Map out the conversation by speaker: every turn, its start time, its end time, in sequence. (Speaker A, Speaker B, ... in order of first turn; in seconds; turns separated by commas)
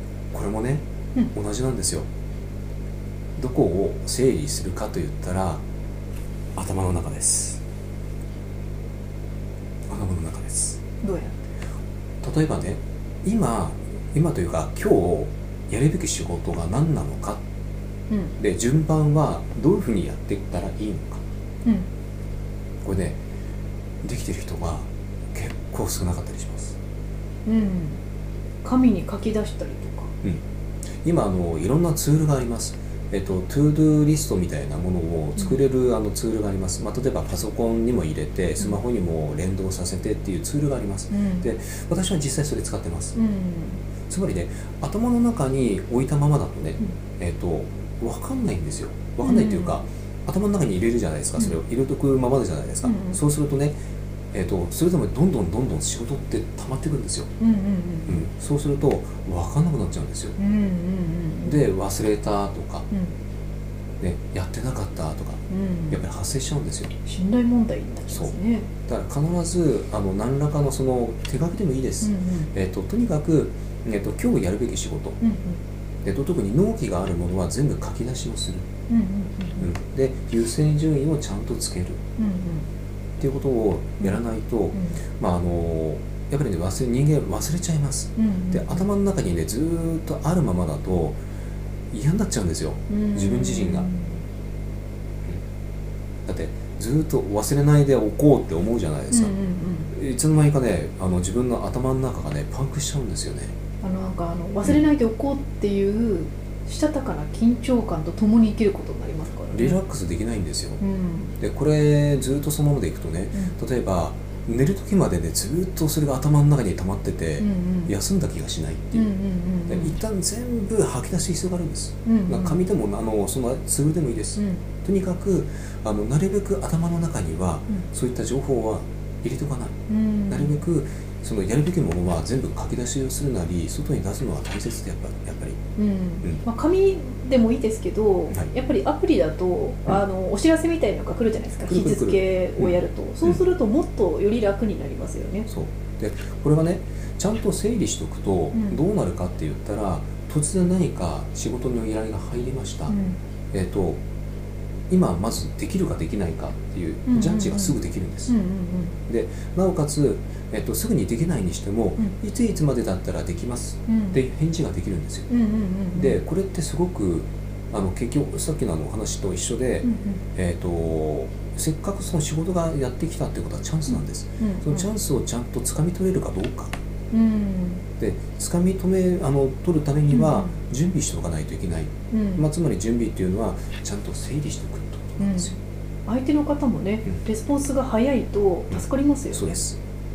Speaker A: 0.3-2.0, Speaker A: 3.4-5.6, Speaker A: 6.5-7.6, Speaker A: 9.9-10.8, Speaker B: 11.0-11.3, Speaker A: 12.2-17.4, Speaker A: 18.4-21.2, Speaker A: 22.8-23.2, Speaker A: 24.0-26.8, Speaker B: 27.4-28.0, Speaker B: 28.6-30.1, Speaker A: 31.0-43.1, Speaker B: 41.1-41.4, Speaker B: 43.1-43.8, Speaker A: 44.1-53.8, Speaker B: 49.2-49.8, Speaker B: 52.8-53.2, Speaker A: 54.3-57.3, Speaker B: 57.4-58.2, Speaker A: 58.1-60.4, Speaker B: 60.4-61.6, Speaker A: 61.4-62.9, Speaker A: 64.0-66.9, Speaker B: 65.5-66.0, Speaker B: 67.0-68.7, Speaker A: 68.8-75.2, Speaker B: 72.0-72.5, Speaker B: 75.2-75.6, Speaker A: 76.0-78.7, Speaker B: 78.9-79.7, Speaker A: 79.6-82.0, Speaker B: 82.2-82.7, Speaker A: 83.2-91.2, Speaker B: 88.2-88.8, Speaker A: 91.9-93.9, Speaker B: 92.9-94.2, Speaker A: 96.2-99.3, Speaker B: 99.1-99.9, Speaker A: 99.9-103.5, Speaker B: 103.8-109.8, Speaker A: 109.5-110.8, Speaker B: 110.8-111.3, Speaker A: 111.4-119.1, Speaker B: 117.4-117.9, Speaker B: 118.9-120.0, Speaker A: 119.7-129.8, Speaker B: 122.0-122.6, Speaker B: 124.4-124.6, Speaker B: 129.9-130.6, Speaker A: 130.3-135.6, Speaker B: 135.8-145.5, Speaker A: 141.6-143.4, Speaker A: 145.5-152.9, Speaker B: 152.9-153.2, Speaker A: 153.5-154.0, Speaker A: 154.9-158.3, Speaker B: 157.1-157.8, Speaker B: 158.3-158.9, Speaker A: 159.1-165.3, Speaker B: 163.9-164.2, Speaker B: 165.3-166.2, Speaker A: 165.9-176.8, Speaker B: 169.8-170.2, Speaker B: 173.9-174.9, Speaker B: 177.1-177.8, Speaker A: 178.0-185.5, Speaker B: 180.1-180.5, Speaker B: 182.1-182.4, Speaker B: 185.2-189.6, Speaker A: 188.7-189.8